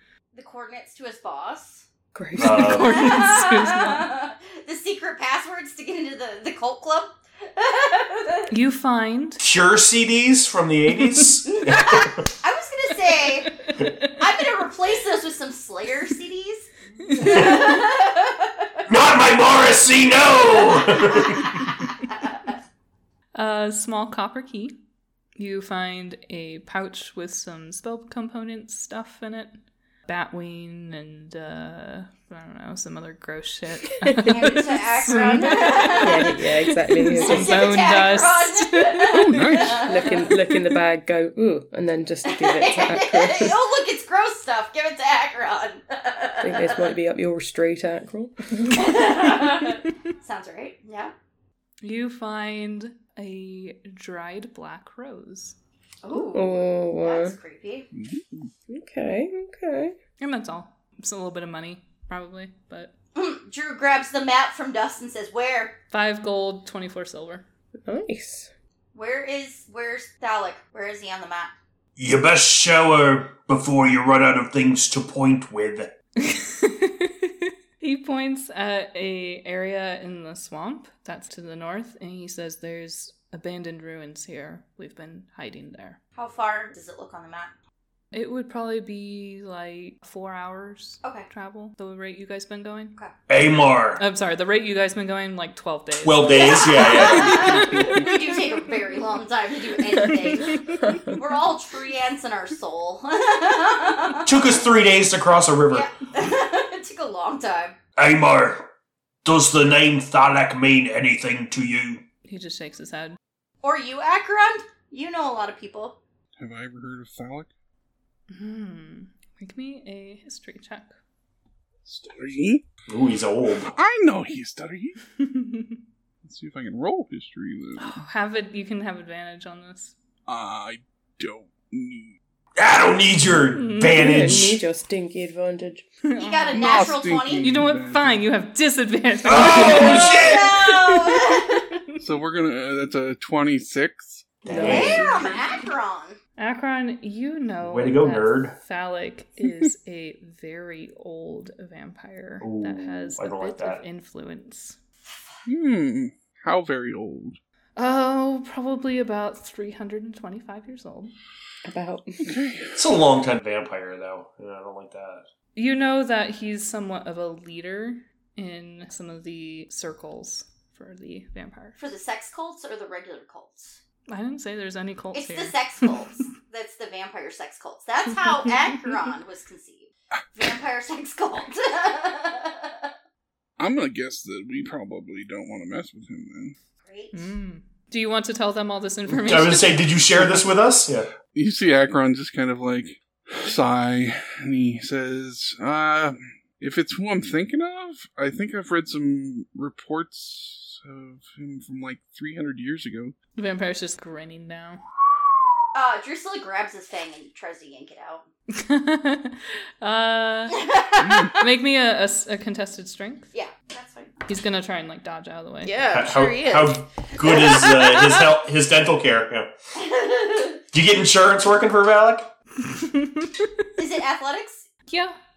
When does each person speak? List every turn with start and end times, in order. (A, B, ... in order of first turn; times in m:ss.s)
0:00.3-0:01.8 A
0:02.1-0:02.8 B
0:02.4-0:02.9 C
0:02.4-0:04.1 D
0:02.6-0:08.5 A
0:08.5-0:09.4 D
0:09.4-0:12.2 C
0:11.0-0:11.3 D
0:11.5-0:18.5 A
0:13.4-0:14.2 D
0:17.0-0:17.8 D
0:18.9-0:21.7 C
0:20.6-0:21.7 A
0:23.3-0:24.7 D
0:25.4-0:39.2 D
0:34.2-0:36.3 A
0:36.0-0:37.8 B
0:37.1-0:40.3 A
0:39.1-0:43.6 B
0:39.3-0:39.9 E
0:42.2-0:46.9 A
0:46.4-0:48.7 B
0:48.6-0:51.1 A
0:51.8-0:55.6 D
0:56.0-0:57.9 A
0:56.1-0:57.4 B
0:57.9-0:58.5 E
0:58.7-0:59.9 B
1:00.2-1:02.9 D
1:03.1-1:05.8 A
1:05.9-1:07.4 D
1:07.8-1:08.5 B
1:08.9-1:11.5 A
1:12.0-1:15.9 C
1:16.2-1:26.0 D
1:26.2-1:27.5 A
1:28.1-1:33.0 D
1:31.0-1:31.3 A
1:33.3-1:34.0 C
1:34.0-1:38.1 D
1:35.9-1:37.9 C
1:36.3-1:44.4 A
1:40.0-1:41.1 B
1:44.2-1:45.9 C
1:45.7-1:47.8 A
1:48.0-1:48.7 C
1:49.2-1:52.0 C
1:52.2-1:53.2 D
1:53.6-1:56.0 A
1:56.4-1:57.5 E
1:58.3-2:01.0 D
2:01.8-2:02.6 E
2:02.9-2:03.7 C
2:03.6-2:05.0 E
2:05.2-2:05.8 D
2:06.2-2:08.0 E
2:07.8-2:10.0 D
2:10.2-2:12.1 E
2:12.6-2:14.6 C
2:13.5-2:14.3 D
2:13.9-2:15.8 B
2:16.0-2:21.8 D
2:16.2-2:17.5 A
2:16.5-2:18.3 E
2:19.2-2:20.8 C
2:19.4-2:21.6 A
2:22.0-2:25.3 E
2:24.4-2:25.1 C
2:24.4-2:25.3 B
2:24.6-2:26.2 A
2:26.4-2:34.8 D
2:27.6-2:28.6 C
2:32.4-2:33.8 C
2:35.4-2:37.4 E
2:37.8-2:41.1 D
2:41.6-2:42.2 B
2:42.2-2:42.9 E
2:42.8-2:45.2 C
2:45.5-2:51.8 D
2:51.8-2:53.8 A
2:54.1-2:55.9 D
2:55.1-3:02.9 A
3:03.6-3:06.6 E
3:06.8-3:07.2 A
3:07.1-3:09.9 D
3:09.1-3:11.1 C
3:11.3-3:23.1 E
3:23.4-3:24.8 D
3:25.7-3:28.2 A
3:28.5-3:30.6 D
3:30.5-3:31.4 A
3:31.0-3:31.4 E
3:31.4-3:33.3 D
3:33.3-3:34.2 A
3:34.3-3:35.8 D
3:35.6-3:38.3 A
3:35.9-3:39.5 C
3:39.8-3:40.6 A
3:40.7-3:42.3 C
3:42.7-3:43.5 D
3:43.8-3:44.7 A
3:44.9-3:45.1 D